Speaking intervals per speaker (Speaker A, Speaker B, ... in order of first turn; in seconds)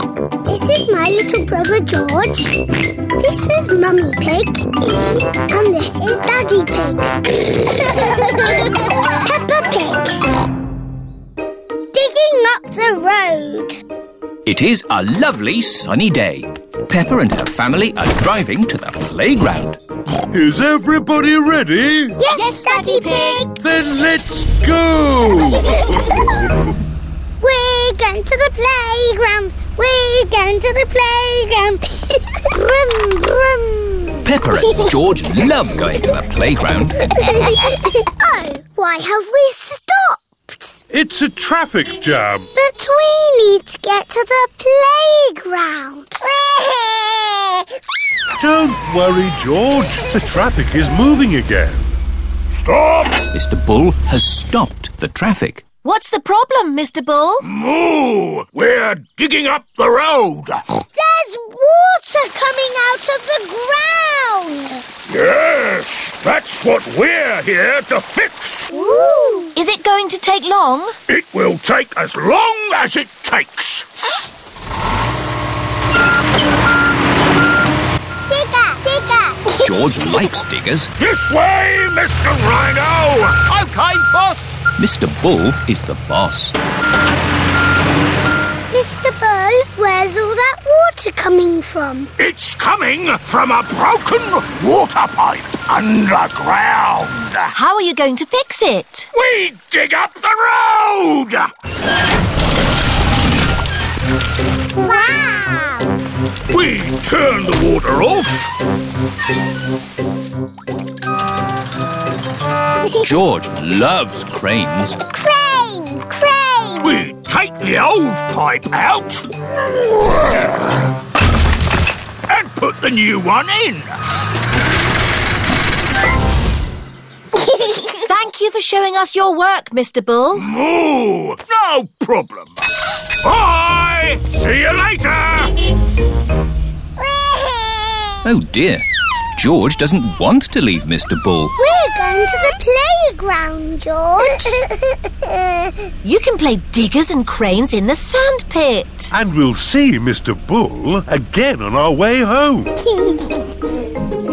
Speaker A: 0.4-2.6, 3.2-4.7, 5.5-10.2, 11.9-13.8, 22.2-23.5, 27.4-34.3, 37.2-40.8, 42.6-46.2, 60.9-64.8, 68.7-69.5, 78.3-79.5, 88.7-92.1, 104.8-105.9, 115.0-117.0, 141.6-144.7, 145.2-145.7
Speaker B: 14.5-19.8, 34.2-37.0, 53.3-55.7, 79.6-80.9, 84.8-86.5, 113.0-115.0, 138.2-138.8, 139.4-141.5
Speaker C: 20.3-22.2, 23.6-25.9, 40.9-42.5, 48.4-52.0, 149.1-152.8
Speaker D: 22.3-23.5, 55.8-57.5, 68.8-71.0, 97.5-99.1, 127.8-130.5, 146.0-149.1
Speaker E: 52.5-53.2, 57.4-60.6, 65.1-68.8, 71.1-73.9, 81.0-84.6, 92.2-97.5, 99.1-101.5, 106.5-108.5, 116.8-119.3, 122.3-124.0, 130.3-132.6, 133.2-135.6